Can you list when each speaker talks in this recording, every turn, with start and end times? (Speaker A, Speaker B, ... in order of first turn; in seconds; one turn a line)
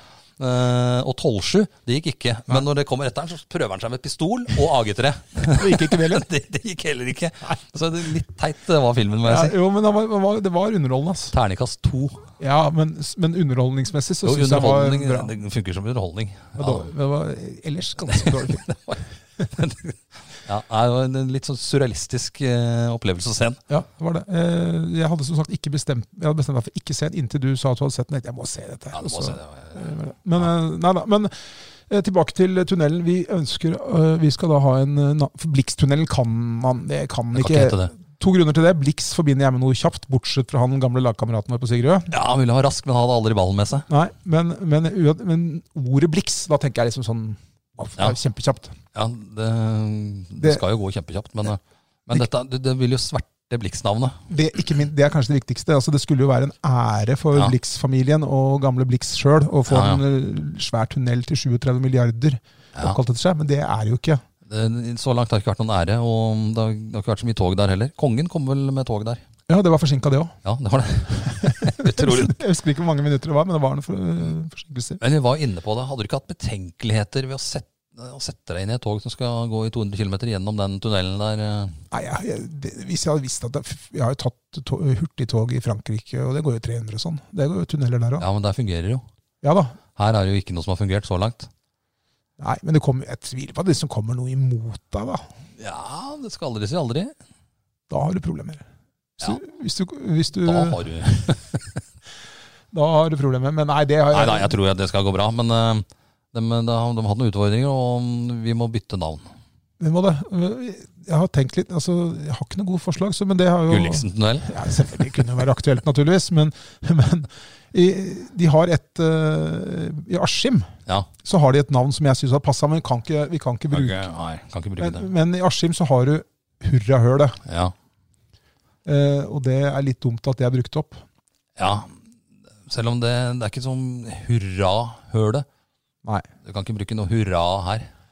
Speaker A: 0.4-9.6
Speaker B: 5.5-6.3
Speaker B: 9.2-11.3
Speaker A: 11.3-12.3
Speaker B: 12.4-15.3
Speaker A: 14.2-16.9
Speaker B: 16.6-18.6
Speaker A: 18.1-23.6
Speaker B: 23.7-42.1
Speaker A: 28.9-29.8
Speaker A: 37.3-37.9
Speaker A: 42.1-43.9
Speaker B: 43.9-48.7
Speaker A: 48.9-54.2
Speaker B: 54.3-64.2
Speaker A: 59.7-60.0
Speaker A: 64.5-69.2
Speaker B: 69.5-70.3
Speaker A: 70.5-72.4
Speaker B: 71.3-75.0
Speaker A: 75.0-81.8
Speaker B: 81.9-88.3
Speaker A: 88.2-89.0
Speaker B: 89.4-89.8
Speaker A: 90.0-91.5
Speaker B: 92.4-95.2
Speaker A: 95.6-97.1
Speaker B: 97.9-98.6
Speaker B: 99.2-100.8
Speaker A: 100.5-101.8
Speaker B: 102.7-104.5
Speaker A: 104.1-109.3
Speaker B: 109.8-120.7
Speaker A: 113.7-114.5
Speaker B: 121.2-124.0
Speaker A: 123.7-125.1
Speaker B: 124.8-127.4
Speaker A: 127.5-127.7
Speaker B: 128.8-131.0
Speaker A: 131.6-132.0
Speaker A: 132.7-135.5
Speaker A: 136.4-137.9